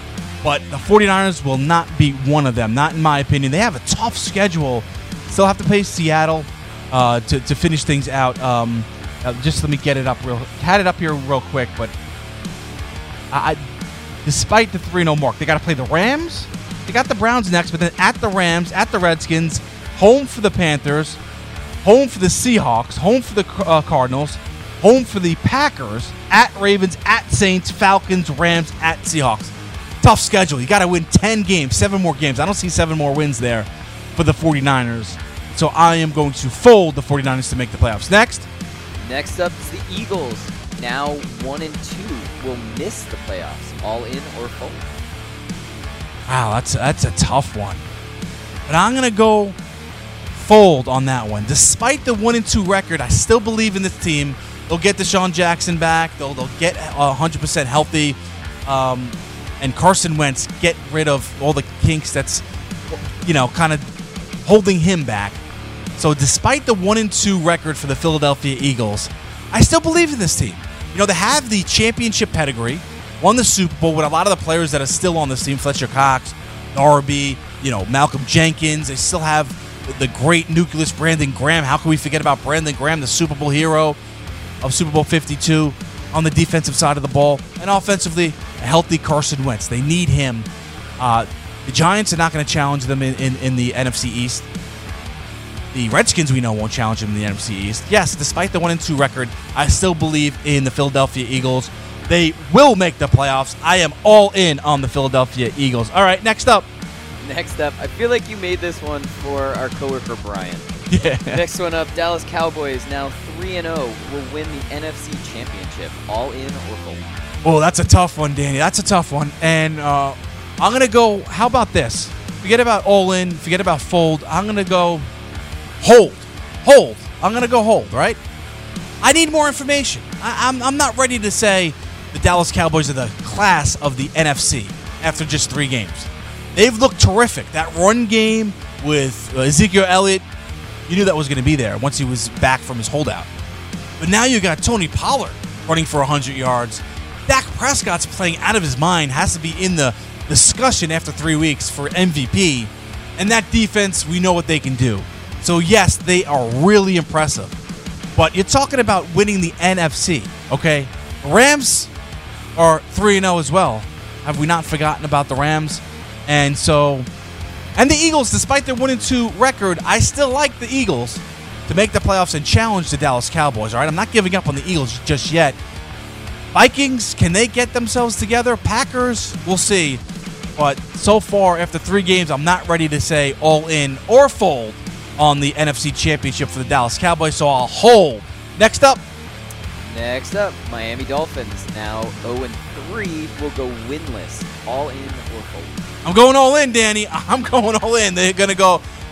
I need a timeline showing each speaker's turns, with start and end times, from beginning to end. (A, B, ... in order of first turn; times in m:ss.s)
0:00.4-0:11.9 A
0:13.3-0:13.6 A
0:14.2-0:21.2 A
0:21.8-0:38.5 A
0:39.0-0:44.9 B
0:46.3-0:47.8 A
0:48.7-0:49.6 A
0:50.3-1:03.9 A
1:04.4-1:05.4 A
1:06.0-1:24.0 A
1:24.6-1:30.5 A
1:31.0-1:34.5 A
1:35.7-1:46.6 A
1:47.2-1:50.6 B
1:50.9-1:51.4 A
1:51.3-1:57.0 B
1:57.4-2:05.0 A
2:05.8-2:08.2 A
2:09.0-2:20.2 A
2:20.9-2:23.3 A
2:24.0-2:37.6 A
2:38.1-2:41.9 A
2:42.6-2:47.1 A
2:47.8-2:55.6 A
2:56.5-3:00.0 A
3:00.6-3:09.0 A
3:09.9-3:15.8 B
3:16.0-3:18.8 A